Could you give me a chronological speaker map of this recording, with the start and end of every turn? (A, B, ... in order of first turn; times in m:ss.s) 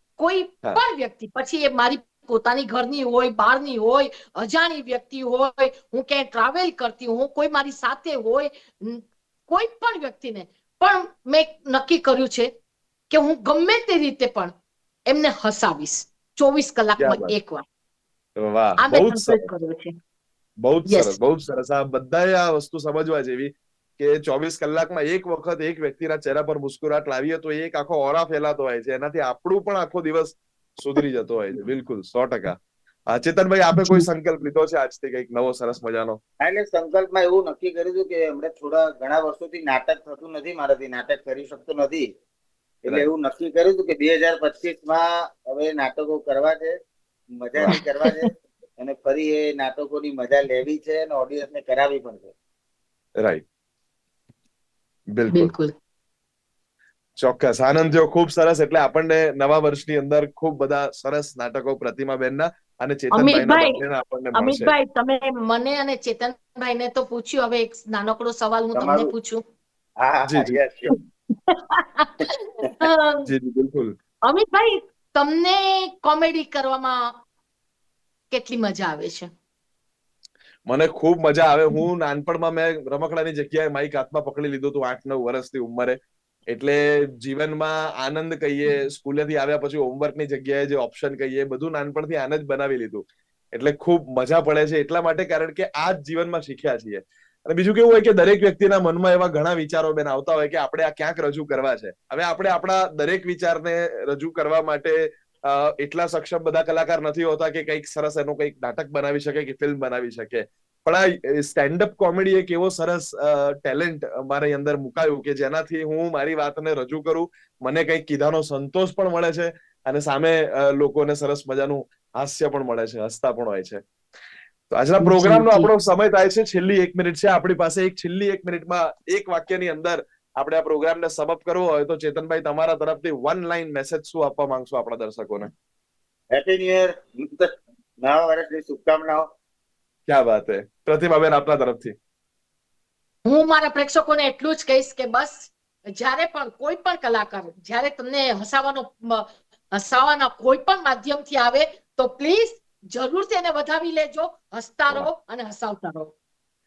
0:00.2-0:12.5 A
0:13.1-0:14.5 A
0:15.1-0:17.6 A
0:17.0-0:17.4 B
0:18.4-0:19.5 B
0:18.8-0:20.0 A
0:20.6-0:36.2 B
0:20.9-0:21.2 A
0:33.8-0:34.0 A
0:36.4-0:42.1 C
0:42.8-0:46.8 C
0:47.4-0:52.3 C
0:47.7-0:48.3 A
0:55.1-0:55.5 B
0:55.3-0:55.7 A
0:57.2-1:04.7 B
1:03.1-1:03.8 A
1:04.3-1:09.4 A
1:08.8-1:09.1 C
1:10.0-1:10.9 C
1:10.3-1:10.6 B
1:10.9-1:13.3 A
1:13.2-1:14.0 B
1:14.3-1:17.1 A
1:18.3-1:19.3 A
1:20.7-1:26.0 B
1:26.5-2:03.8 B
2:04.7-2:15.5 B
2:05.0-2:05.7 A
2:16.3-2:19.3 C
2:20.1-2:22.0 B
2:23.3-2:36.1 A